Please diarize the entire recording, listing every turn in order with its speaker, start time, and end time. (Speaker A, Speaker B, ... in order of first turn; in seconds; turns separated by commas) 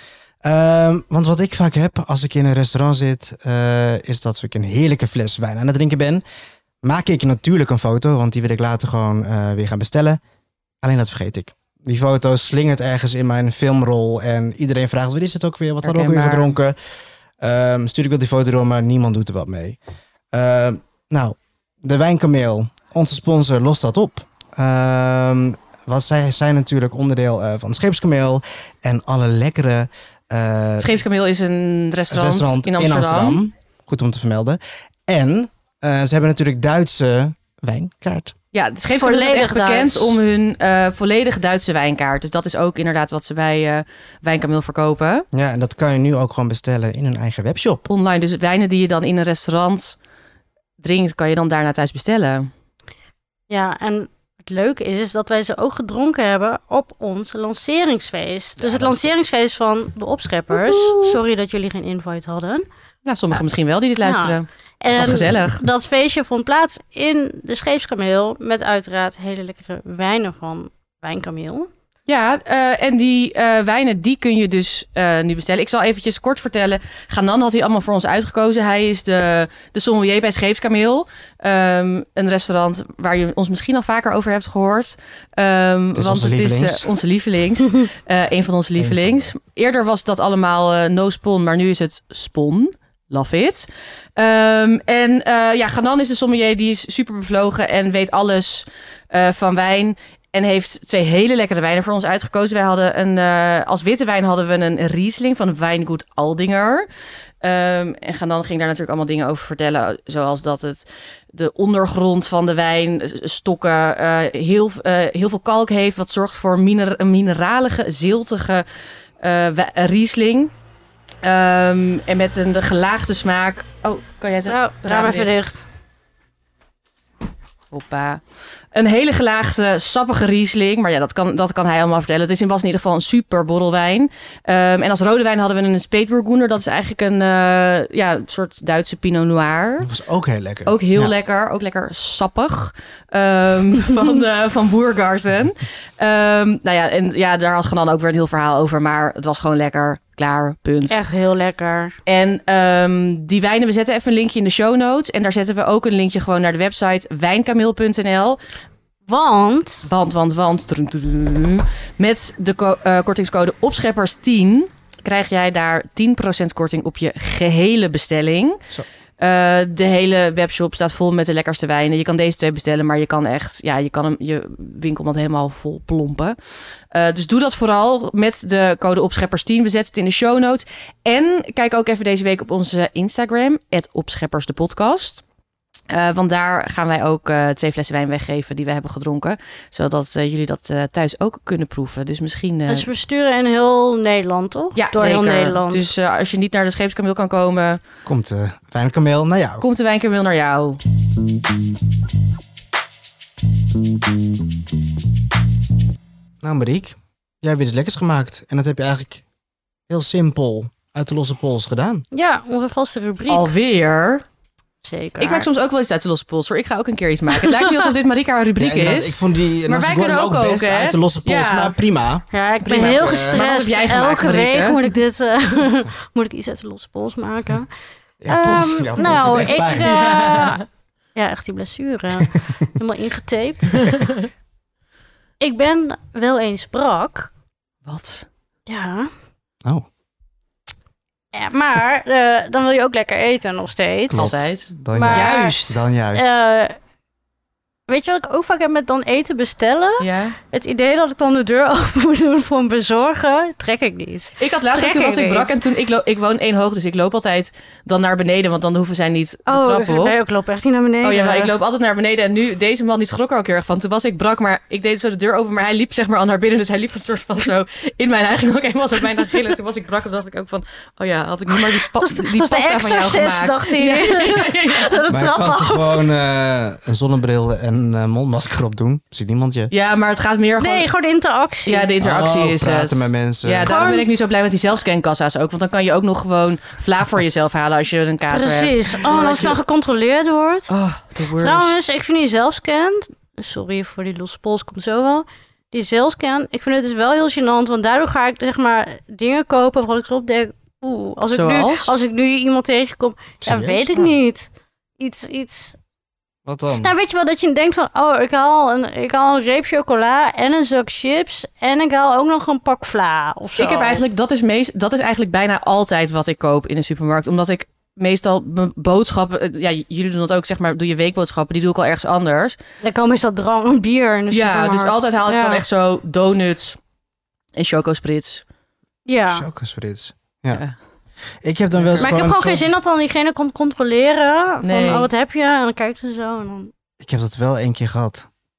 Speaker A: 0.4-6.2, Speaker A: 6.8-10.2, Speaker A: 10.8-16.8, Speaker B: 15.8-16.6, Speaker A: 17.4-19.8, Speaker A: 20.3-30.9, Speaker B: 30.8-33.4, Speaker A: 32.1-38.3, Speaker B: 38.5-45.3, Speaker C: 38.9-40.2, Speaker A: 45.3-47.9, Speaker B: 47.9-50.0, Speaker B: 50.8-52.5, Speaker C: 53.5-62.6, Speaker A: 58.6-59.1, Speaker B: 60.6-61.0, Speaker B: 63.0-65.6, Speaker C: 64.0-71.7, Speaker A: 65.0-65.3, Speaker B: 72.1-106.9, Speaker A: 85.9-86.9, Speaker A: 88.8-89.3, Speaker B: 107.4-118.6, Speaker B: 119.2-120.5, Speaker B: 121.2-125.5, Speaker C: 124.5-125.7, Speaker B: 127.7-139.9, Speaker A: 139.8-141.1, Speaker B: 140.7-150.9, Speaker C: 150.9-152.0, Speaker B: 152.1-158.4, Speaker C: 159.1-159.9, Speaker B: 159.8-168.6, Speaker B: 169.2-176.3, Speaker B: 176.9-185.2, Speaker B: 185.9-192.9, Speaker C: 192.7-195.9, Speaker B: 194.8-197.8, Speaker A: 198.1-199.6, Speaker B: 199.6-200.8, Speaker A: 206.4-209.2, Speaker A: 209.9-212.1, Speaker C: 212.1-213.5, Speaker B: 213.3-214.2, Speaker C: 214.8-215.5, Speaker B: 215.2-221.7, Speaker A: 218.6-222.2, Speaker C: 222.3-227.7, Speaker B: 222.6-224.9, Speaker A: 222.9-223.4, Speaker A: 228.2-230.4, Speaker C: 228.3-230.6, Speaker B: 229.8-230.6, Speaker C: 231.1-234.1, Speaker A: 232.2-232.7, Speaker B: 233.8-234.1, Speaker C: 235.4-237.3, Speaker B: 237.8-238.3, Speaker C: 238.7-239.1, Speaker C: 241.3-245.6, Speaker A: 244.1-246.3, Speaker B: 244.1-245.8, Speaker C: 246.1-246.8, Speaker C: 247.9-255.6, Speaker B: 250.0-250.4, Speaker B: 254.4-260.1, Speaker C: 259.5-261.5, Speaker B: 261.0-275.0, Speaker C: 271.9-276.0, Speaker A: 275.1-279.7, Speaker B: 279.7-280.9, Speaker C: 280.6-281.9, Speaker B: 281.6-289.6, Speaker A: 282.0-283.7, Speaker C: 283.6-284.1, Speaker C: 288.3-290.7, Speaker B: 290.7-291.8, Speaker C: 291.4-305.8, Speaker B: 301.3-301.9, Speaker A: 303.4-304.1, Speaker A: 306.4-306.9, Speaker C: 306.8-314.0, Speaker B: 313.6-322.6, Speaker C: 322.8-325.6, Speaker B: 324.3-326.8, Speaker B: 327.6-328.4, Speaker C: 329.1-329.4, Speaker A: 329.3-330.6, Speaker A: 331.4-332.7, Speaker B: 331.7-332.2, Speaker C: 332.0-336.7, Speaker B: 334.6-335.1, Speaker A: 337.0-338.3